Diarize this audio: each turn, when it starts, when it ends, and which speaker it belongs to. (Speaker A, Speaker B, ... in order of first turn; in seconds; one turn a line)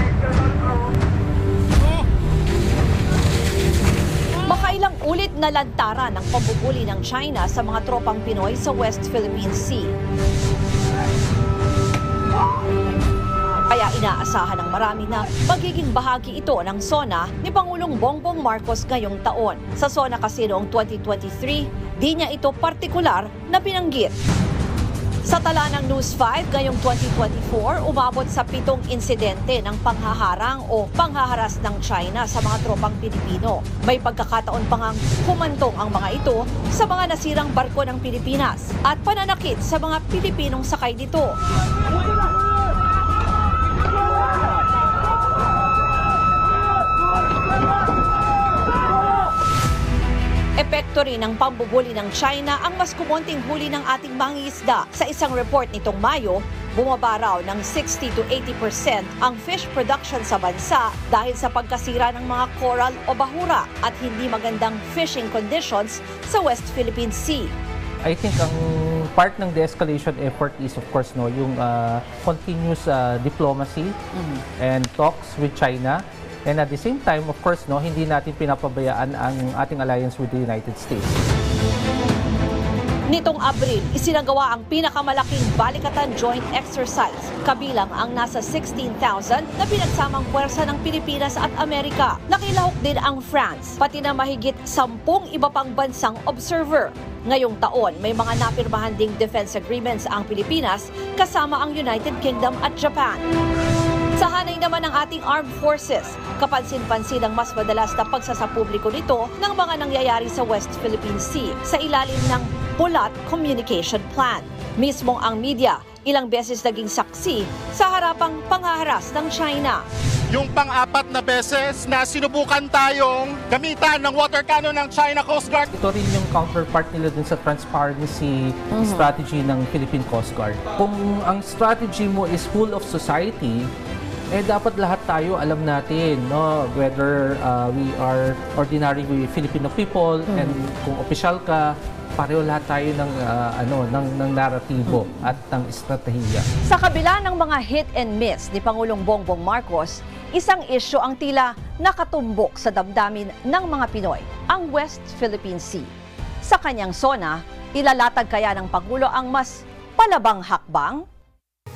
Speaker A: 4.4-9.9
Speaker A: 13.7-24.2
Speaker A: 25.2-41.4
Speaker A: 50.6-67.5
Speaker B: 68.0-73.9
Speaker A: 74.1-74.4
Speaker B: 74.6-81.2
Speaker A: 83.1-103.2
Speaker A: 104.2-119.8
Speaker C: 120.3-125.7
Speaker B: 125.7-133.7
Speaker A: 128.7-129.1
Speaker B: 134.3-146.5
Speaker A: 140.3-140.6
Speaker A: 144.9-145.2
Speaker A: 146.7-155.9
Speaker A: 156.4-161.0